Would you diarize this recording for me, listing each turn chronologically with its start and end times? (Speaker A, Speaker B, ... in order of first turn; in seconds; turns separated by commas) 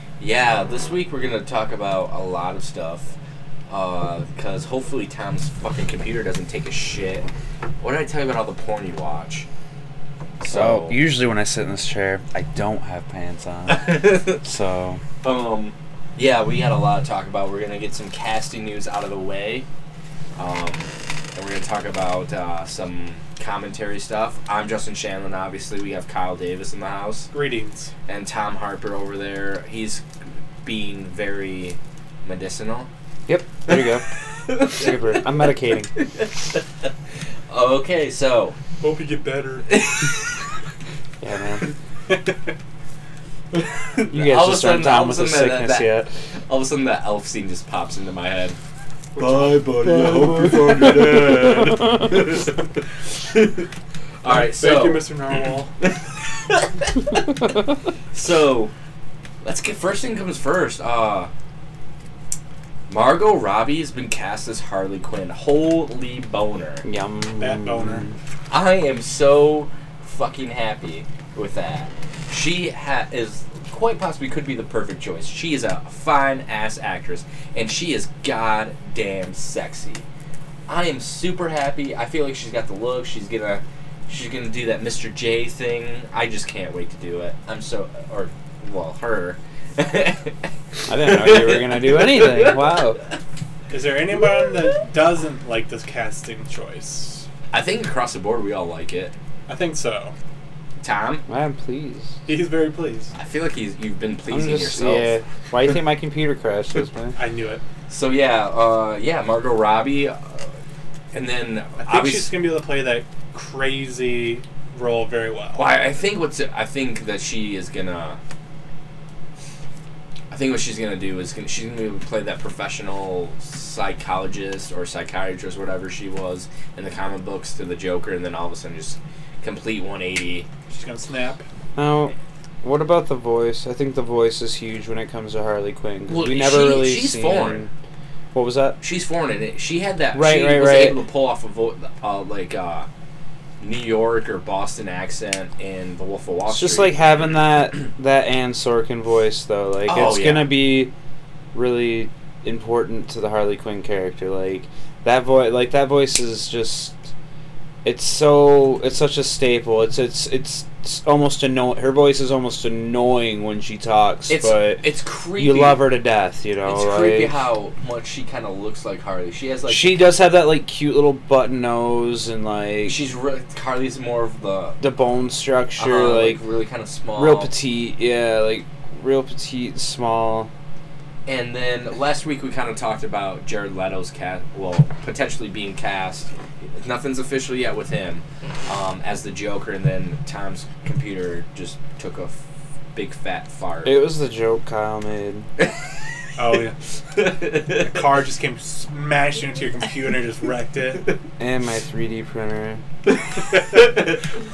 Speaker A: 0.2-3.1, Speaker A: 3.7-7.3, Speaker A: 7.8-9.5, Speaker A: 10.4-11.0, Speaker B: 10.5-15.0, Speaker A: 13.7-14.4, Speaker A: 15.2-19.6, Speaker A: 20.4-27.3, Speaker C: 27.3-27.9, Speaker A: 28.1-30.0, Speaker A: 30.6-32.9, Speaker B: 33.3-34.1, Speaker A: 33.7-34.9, Speaker B: 34.6-35.9, Speaker A: 36.0-36.9, Speaker A: 37.5-38.6, Speaker C: 38.8-39.7, Speaker A: 39.7-40.4, Speaker B: 41.2-41.7, Speaker C: 42.1-42.3, Speaker A: 43.5-48.6, Speaker B: 44.1-46.1, Speaker A: 49.1-53.7, Speaker C: 49.2-49.5, Speaker B: 49.9-52.1, Speaker C: 50.2-50.8, Speaker A: 54.2-55.1, Speaker C: 54.2-55.7, Speaker A: 55.8-57.4, Speaker A: 58.1-58.7, Speaker A: 59.4-61.3, Speaker A: 62.9-66.8, Speaker B: 66.8-68.2, Speaker C: 67.4-68.0, Speaker A: 68.5-80.0, Speaker A: 80.7-92.8, Speaker B: 90.9-93.0, Speaker C: 93.7-97.2, Speaker A: 97.5-99.1, Speaker C: 99.5-100.1, Speaker A: 100.8-101.2, Speaker B: 101.3-102.2, Speaker C: 102.2-103.1, Speaker A: 103.2-105.1, Speaker B: 104.3-107.2, Speaker C: 107.2-107.6, Speaker A: 107.9-110.5, Speaker A: 111.1-112.3, Speaker C: 111.8-115.6, Speaker A: 115.5-118.2, Speaker A: 120.3-130.5, Speaker C: 130.7-131.4, Speaker B: 131.8-137.7, Speaker A: 136.1-137.7, Speaker B: 138.3-138.8, Speaker A: 138.8-142.9, Speaker B: 140.1-141.0, Speaker A: 143.6-147.0, Speaker B: 146.5-150.9, Speaker A: 149.8-150.6, Speaker B: 151.5-157.0, Speaker B: 157.8-164.8, Speaker A: 164.3-165.8, Speaker B: 165.4-167.3, Speaker A: 166.6-170.0, Speaker B: 169.7-173.0, Speaker A: 172.8-174.8, Speaker B: 174.8-176.4, Speaker A: 175.8-177.5, Speaker B: 177.2-180.5, Speaker A: 181.2-192.4, Speaker A: 192.9-193.9, Speaker B: 193.8-195.5, Speaker C: 196.3-196.8, Speaker A: 197.1-197.9, Speaker C: 197.8-201.1, Speaker B: 201.4-202.8, Speaker A: 203.5-204.2